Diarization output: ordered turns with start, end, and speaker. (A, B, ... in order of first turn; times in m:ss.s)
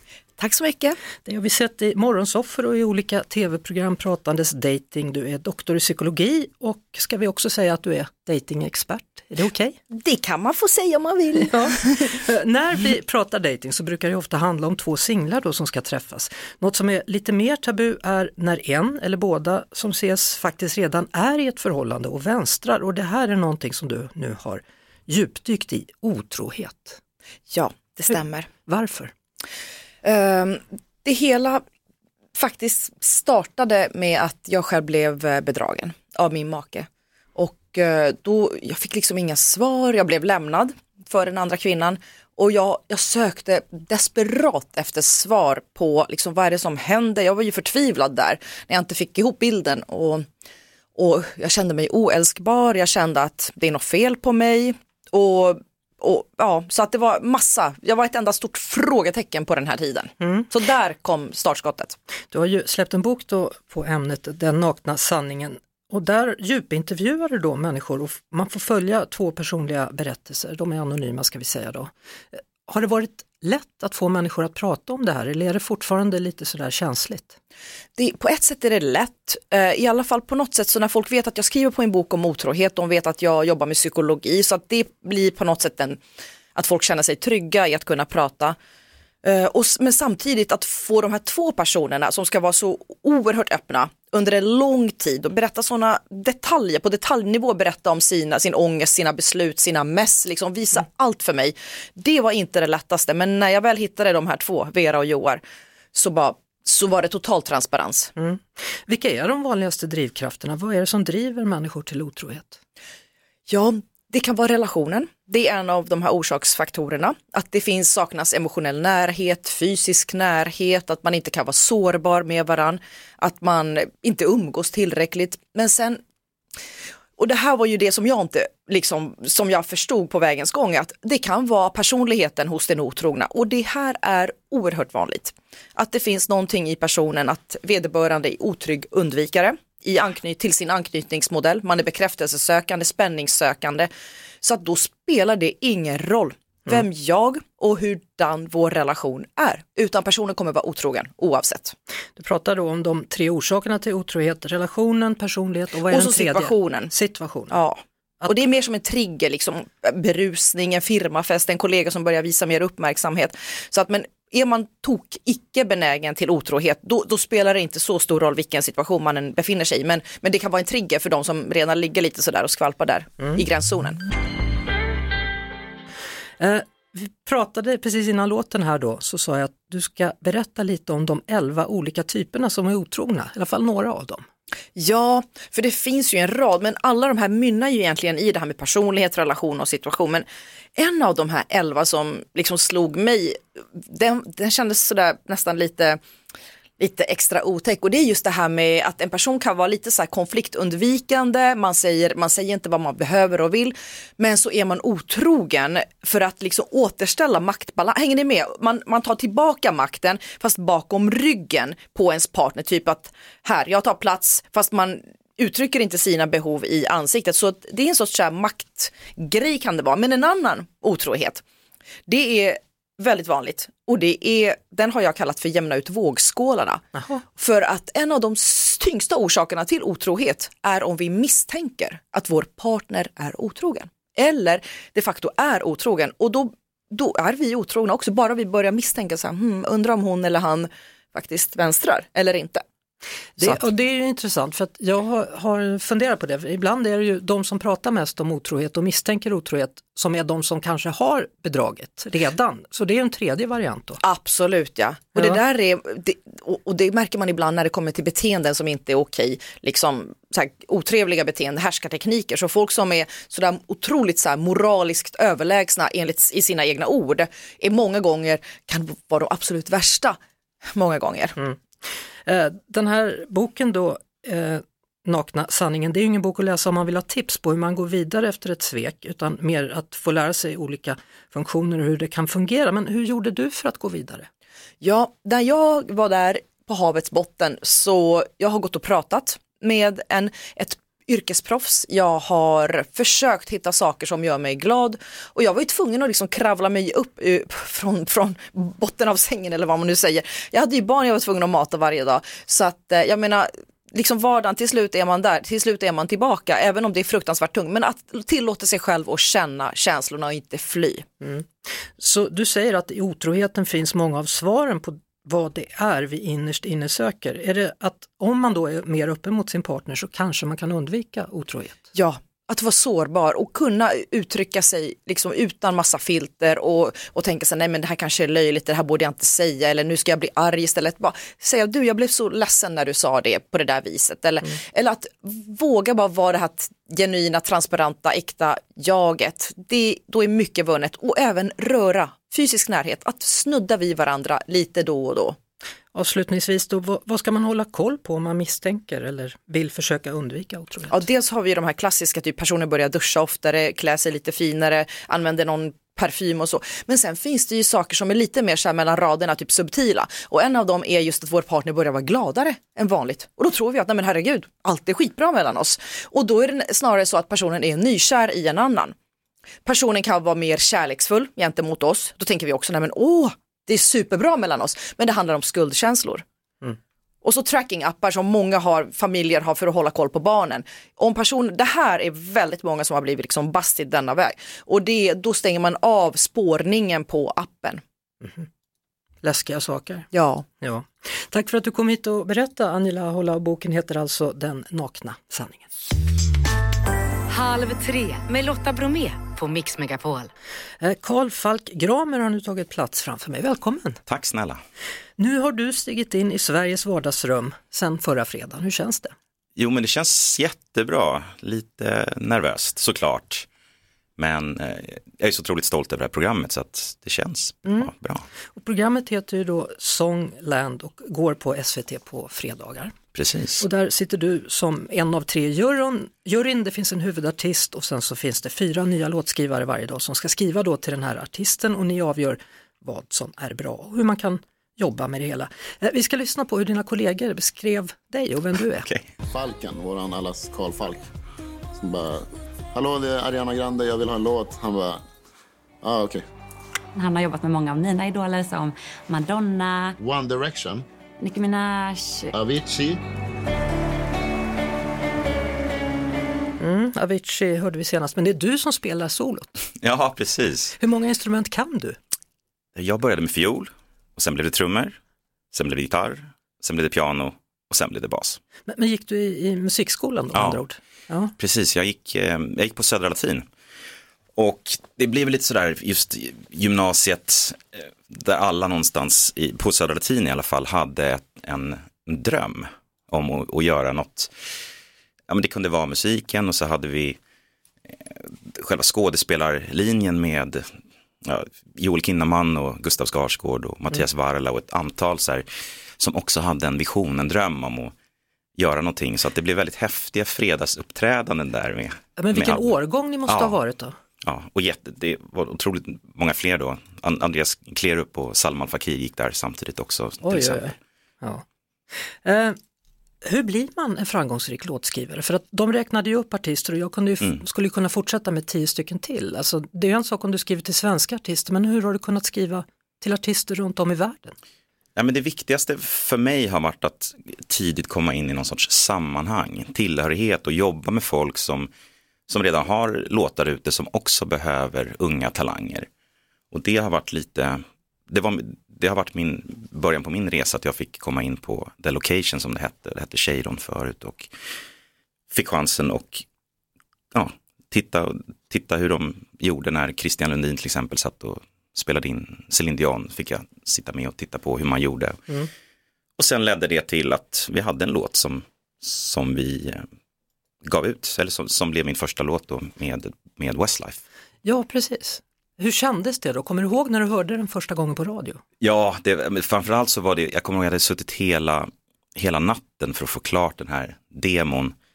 0:00.4-0:01.0 A
0:01.2-0:09.8 B
0:09.9-0:12.1 A
0:11.4-0:27.0 B
0:27.5-0:28.5 A
0:28.7-0:29.1 B
0:30.0-0:31.6 A
0:32.3-0:50.3 A
0:51.0-1:02.0 A
1:00.2-1:00.5 B
1:02.3-1:17.4 B
1:18.0-1:26.0 A
1:26.5-1:28.6 A
1:29.2-1:45.4 A
1:45.9-1:48.1 A
1:48.2-1:52.6 B
1:53.5-2:06.0 A
2:07.2-2:23.9 A
2:24.4-2:31.7 A
2:32.2-2:37.6 B
2:35.9-2:36.9 A
2:37.5-2:54.0 A
2:56.4-3:04.2 B
3:04.8-3:16.0 A
3:16.8-3:41.4 A
3:42.1-4:02.6 A
3:46.9-3:47.2 B
4:03.4-4:14.0 B
4:14.0-4:30.2 A
4:30.7-4:31.3 A
4:32.2-4:44.3 B
4:44.8-5:11.0 A
5:11.2-5:21.8 B
5:21.9-5:45.4 A
5:45.9-5:51.0 B
5:50.9-6:08.9 A
6:09.6-6:16.2 A
6:17.2-6:27.8 A
6:29.2-6:30.1 B
6:30.1-6:30.4 A
6:30.6-6:35.7 B
6:37.3-6:40.3 C
6:40.8-6:44.0 B
6:44.1-6:44.6 D
6:45.2-6:49.1 B
6:49.6-6:53.5 D
6:54.2-6:58.3 D
6:58.6-7:02.9 B
7:03.1-7:03.6 D
7:03.6-7:18.9 B
7:19.3-7:21.1 E
7:21.8-7:25.0 E
7:25.8-7:26.2 E
7:26.9-7:30.0 F
7:30.0-7:30.8 E
7:31.2-7:32.3 F
7:32.3-7:33.0 E
7:36.6-7:39.5 B
7:39.8-7:40.8 D
7:40.8-7:42.0 B
7:42.8-7:45.0 D
7:45.5-7:48.4 D
7:48.7-7:51.3 B
7:50.3-7:50.6 D
7:51.4-7:53.5 D
7:54.4-8:04.3 D
8:05.3-8:07.2 D
8:07.9-8:15.5 D
8:16.0-8:17.9 D
8:18.6-8:22.8 D
8:22.2-8:24.0 B
8:23.3-8:23.6 D
8:24.2-8:30.7 D
8:30.2-8:32.6 B
8:33.2-8:44.4 B
8:45.0-8:51.7 D
8:52.3-8:55.9 D
8:56.5-9:04.3 D
9:05.3-9:06.2 D
9:07.1-9:15.3 D
9:16.2-9:19.8 D
9:20.6-9:24.0 D
9:24.4-9:28.4 B
9:28.6-9:34.7 D